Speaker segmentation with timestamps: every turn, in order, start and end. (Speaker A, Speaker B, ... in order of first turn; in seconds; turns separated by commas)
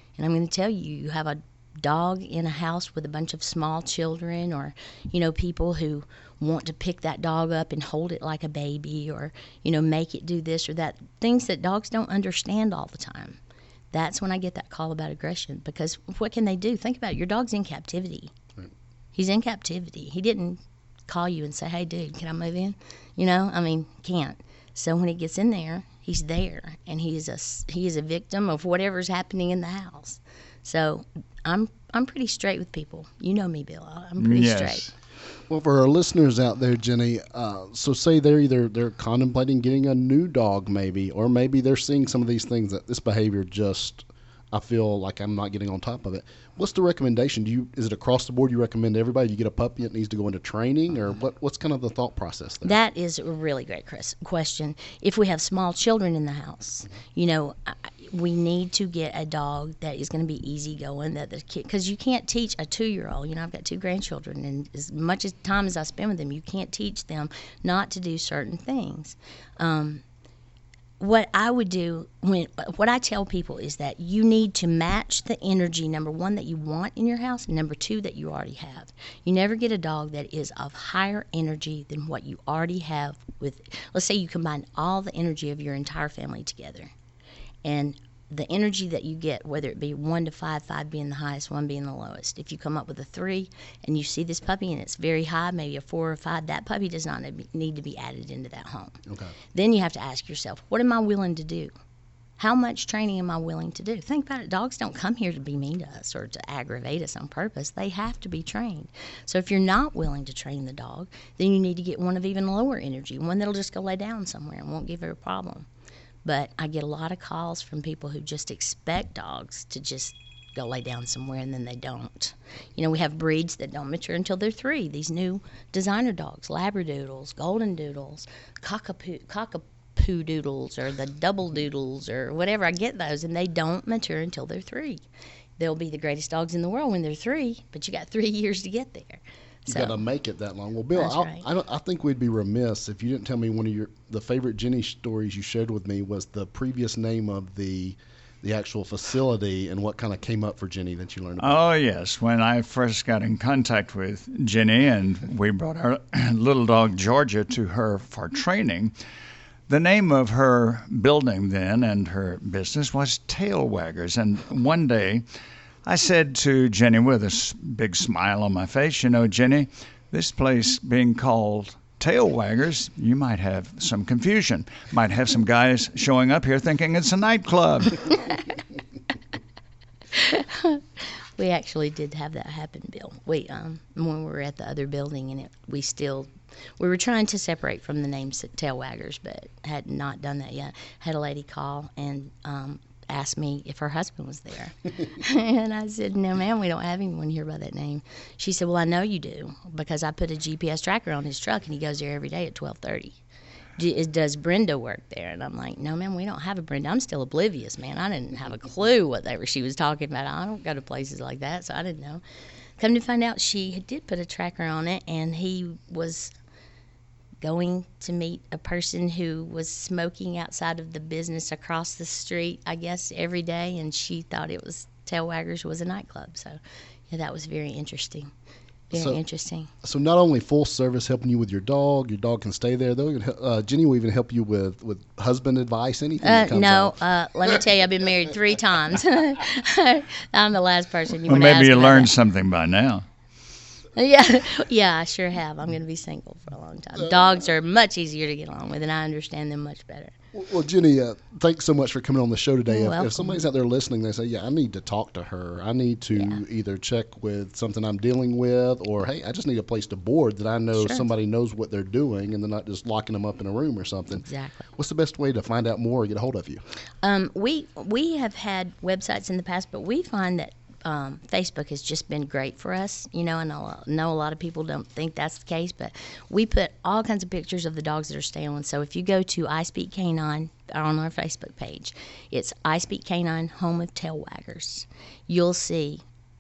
Speaker A: 0.2-13.4, Speaker A: 13.9-18.3, Speaker A: 19.1-34.9, Speaker B: 34.2-34.9, Speaker C: 35.5-52.8, Speaker A: 52.6-70.0, Speaker A: 71.0-86.9, Speaker A: 87.7-99.0, Speaker C: 99.1-99.3, Speaker A: 99.5-101.7, Speaker A: 102.4-115.7, Speaker A: 116.2-135.1, Speaker A: 135.6-140.0, Speaker C: 139.7-151.6, Speaker A: 140.9-141.4, Speaker B: 151.4-158.9, Speaker B: 159.7-165.2, Speaker B: 165.8-178.1, Speaker A: 180.1-203.2, Speaker A: 203.8-212.2, Speaker A: 212.8-216.3, Speaker A: 217.4-228.3, Speaker A: 228.9-229.7, Speaker C: 228.9-229.2, Speaker C: 229.8-237.0, Speaker A: 236.2-242.1, Speaker B: 241.3-243.1, Speaker A: 244.0-250.1, Speaker C: 250.3-264.2, Speaker A: 252.7-253.4, Speaker A: 256.1-256.4, Speaker A: 260.8-261.1, Speaker A: 264.2-264.7, Speaker C: 264.8-266.6, Speaker A: 267.0-286.0